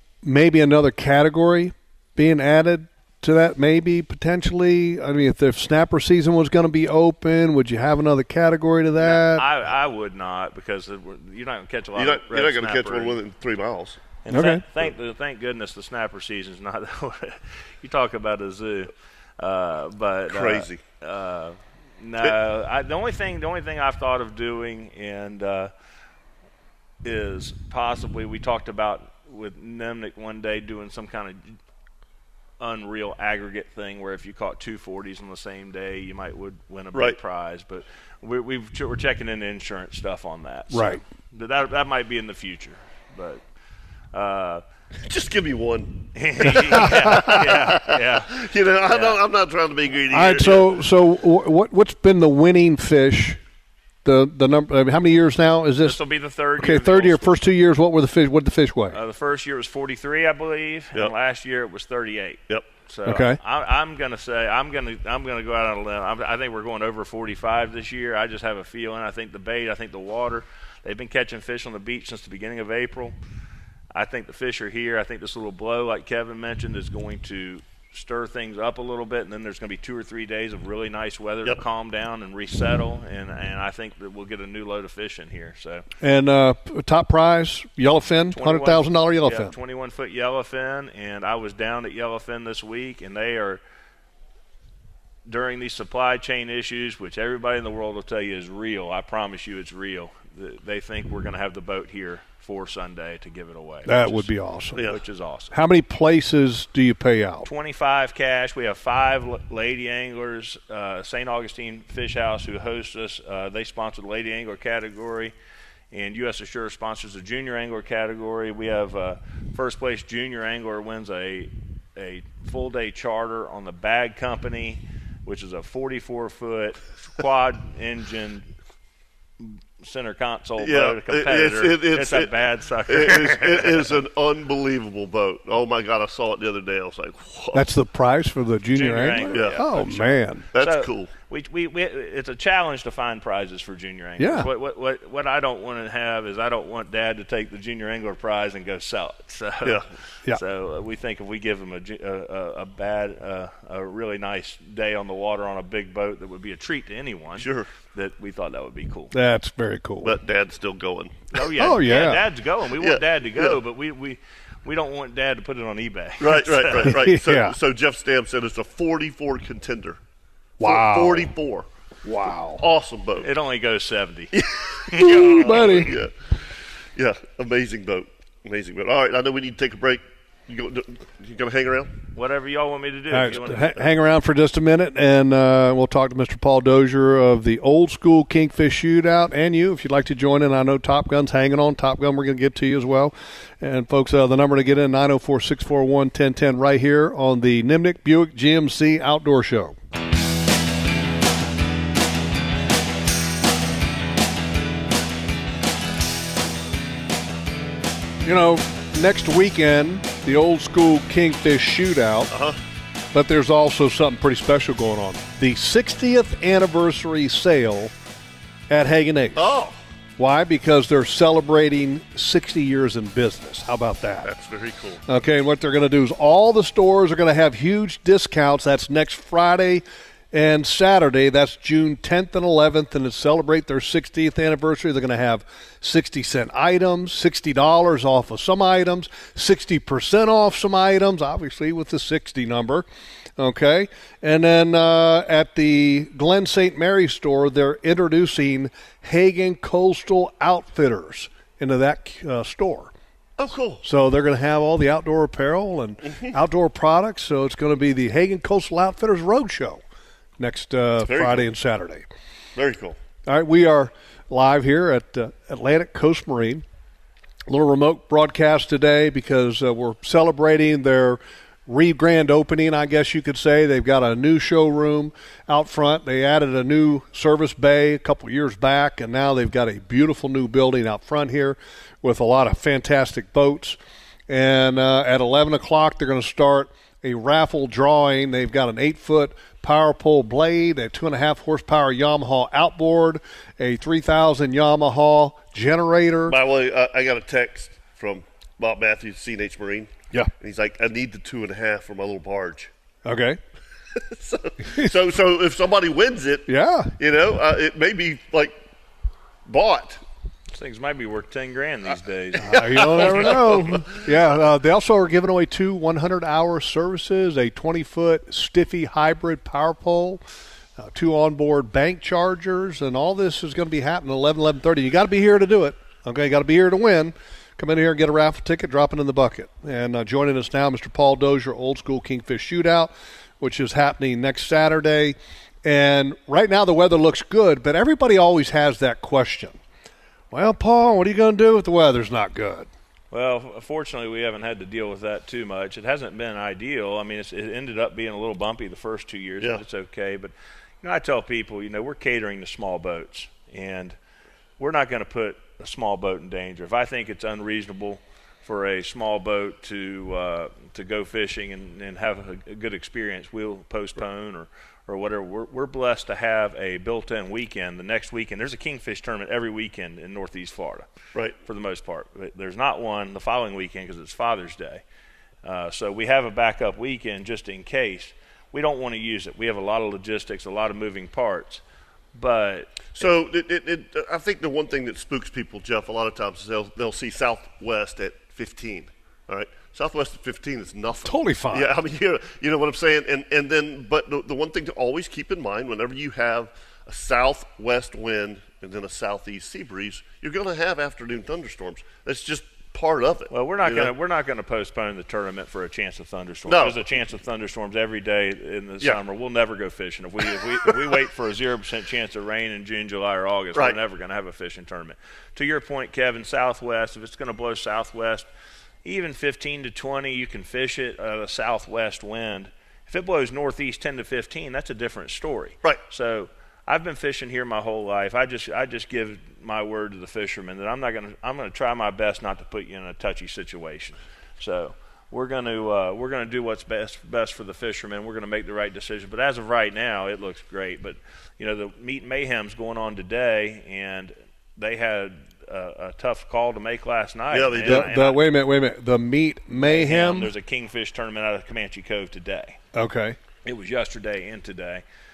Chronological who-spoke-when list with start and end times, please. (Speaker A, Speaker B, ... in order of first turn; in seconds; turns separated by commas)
Speaker A: 0.2-9.4, Speaker B: 9.0-13.2, Speaker C: 11.9-14.0, Speaker B: 14.2-25.7, Speaker A: 14.3-14.6, Speaker C: 20.3-20.8, Speaker B: 27.0-31.6, Speaker B: 32.6-43.4, Speaker A: 40.7-41.0, Speaker B: 44.1-44.6, Speaker C: 45.0-50.8, Speaker B: 46.1-49.2, Speaker A: 50.1-53.4, Speaker A: 54.0-56.0, Speaker B: 55.8-57.3, Speaker A: 56.6-59.0, Speaker B: 58.9-73.1, Speaker A: 63.0-63.4, Speaker B: 73.9-85.8, Speaker A: 86.0-89.5, Speaker B: 88.3-93.6, Speaker B: 95.2-104.3, Speaker A: 103.8-104.8, Speaker B: 104.8-105.5, Speaker A: 105.5-107.5, Speaker B: 107.4-115.3, Speaker B: 115.9-128.5, Speaker B: 129.4-133.9, Speaker C: 130.6-132.3, Speaker C: 132.9-137.7, Speaker A: 137.5-140.5, Speaker B: 138.7-159.1, Speaker C: 139.2-139.6, Speaker C: 140.5-141.1, Speaker A: 144.2-144.5, Speaker C: 157.4-157.7, Speaker A: 159.1-160.2, Speaker C: 160.0-161.3, Speaker B: 161.3-166.9, Speaker A: 161.6-162.3, Speaker C: 162.8-163.6, Speaker C: 166.2-170.0, Speaker A: 166.7-167.5, Speaker A: 170.6-171.3, Speaker C: 170.6-171.7, Speaker A: 172.0-172.6, Speaker C: 172.6-173.3, Speaker B: 173.2-174.3, Speaker C: 174.3-176.1, Speaker B: 174.9-176.0, Speaker A: 175.1-175.9, Speaker C: 176.9-181.9, Speaker B: 182.1-183.9, Speaker A: 183.1-199.8, Speaker A: 208.2-212.3, Speaker C: 212.3-212.6, Speaker A: 213.1-217.9, Speaker A: 218.7-219.6, Speaker C: 219.3-219.8, Speaker A: 220.2-224.3, Speaker C: 224.2-225.0, Speaker A: 225.1-242.8, Speaker A: 243.4-252.9, Speaker C: 253.4-253.8, Speaker A: 253.8-259.8, Speaker A: 260.4-262.0, Speaker C: 261.0-261.4, Speaker C: 262.6-263.0, Speaker A: 263.2-266.6, Speaker A: 267.5-296.4, Speaker C: 296.3-302.7, Speaker A: 303.0-303.4, Speaker C: 303.9-308.6, Speaker A: 306.5-306.9, Speaker C: 309.4-310.0, Speaker B: 310.5-313.3, Speaker A: 312.4-320.2, Speaker C: 312.5-313.8, Speaker A: 320.8-339.6, Speaker A: 340.3-342.7, Speaker B: 343.1-353.9, Speaker B: 354.6-370.9, Speaker B: 371.4-374.8, Speaker B: 375.4-381.6, Speaker B: 382.1-383.1, Speaker C: 382.9-403.9, Speaker A: 391.0-391.7, Speaker B: 403.3-418.3, Speaker C: 406.5-406.8, Speaker B: 418.8-448.2, Speaker C: 447.3-447.9, Speaker A: 447.6-450.3, Speaker B: 449.6-452.6, Speaker A: 452.7-453.2, Speaker B: 453.4-454.8